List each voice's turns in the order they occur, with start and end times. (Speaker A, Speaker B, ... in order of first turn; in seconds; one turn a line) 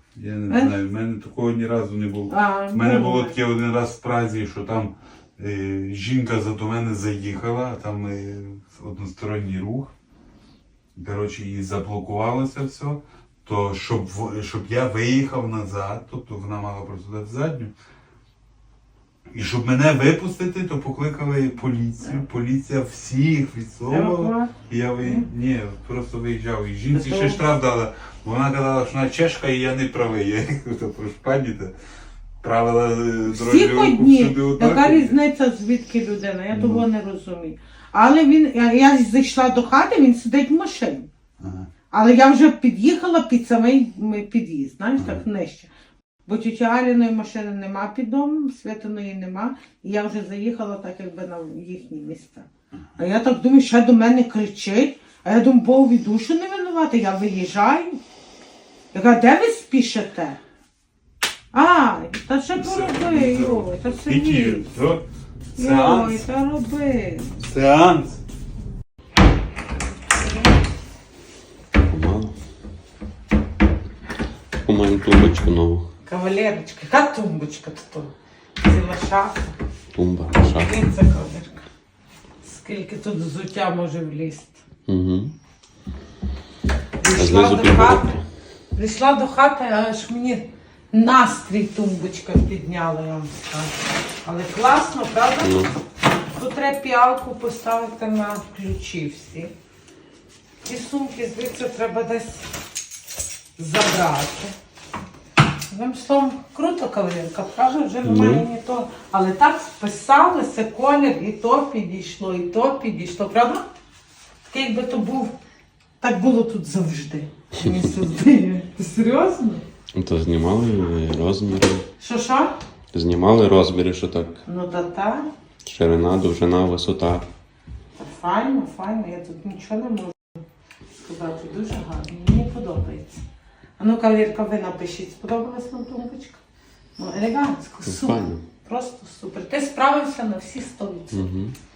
Speaker A: 0.1-9.9
Speaker B: 0.5-0.7
Speaker B: 2.3-3.4
Speaker A: 10.9-17.7
Speaker A: 19.3-31.7
Speaker B: 23.9-25.3
Speaker B: 26.9-27.4
Speaker A: 32.4-35.2
Speaker B: 33.2-41.1
Speaker A: 36.5-36.8
Speaker A: 41.4-41.7
Speaker B: 41.9-45.7
Speaker A: 45.0-45.2
Speaker B: 46.2-52.5
Speaker B: 53.0-58.0
Speaker B: 58.9-60.4
Speaker B: 61.5-64.7
Speaker A: 62.5-65.0
Speaker A: 65.5-66.2
Speaker B: 65.5-67.3
Speaker A: 67.3-68.2
Speaker C: 71.8-72.3
Speaker C: 74.6-75.9
Speaker B: 76.0-79.5
Speaker C: 79.9-80.8
Speaker B: 80.4-81.6
Speaker B: 82.4-84.6
Speaker C: 84.9-85.3
Speaker B: 87.0-88.1
Speaker C: 87.1-88.2
Speaker B: 88.7-93.7
Speaker B: 94.2-95.7
Speaker C: 95.4-95.7
Speaker B: 96.3-99.5
Speaker B: 100.6-102.5
Speaker B: 103.6-104.5
Speaker B: 105.7-113.7
Speaker C: 108.0-108.5
Speaker B: 114.5-115.3
Speaker B: 116.0-119.6
Speaker C: 119.9-121.8
Speaker B: 122.0-122.5
Speaker C: 122.9-124.4
Speaker B: 124.4-125.3
Speaker C: 125.6-127.2
Speaker B: 128.0-130.4
Speaker B: 131.0-133.2
Speaker B: 133.8-136.4
Speaker B: 137.0-141.2
Speaker C: 137.8-138.4
Speaker C: 141.1-141.5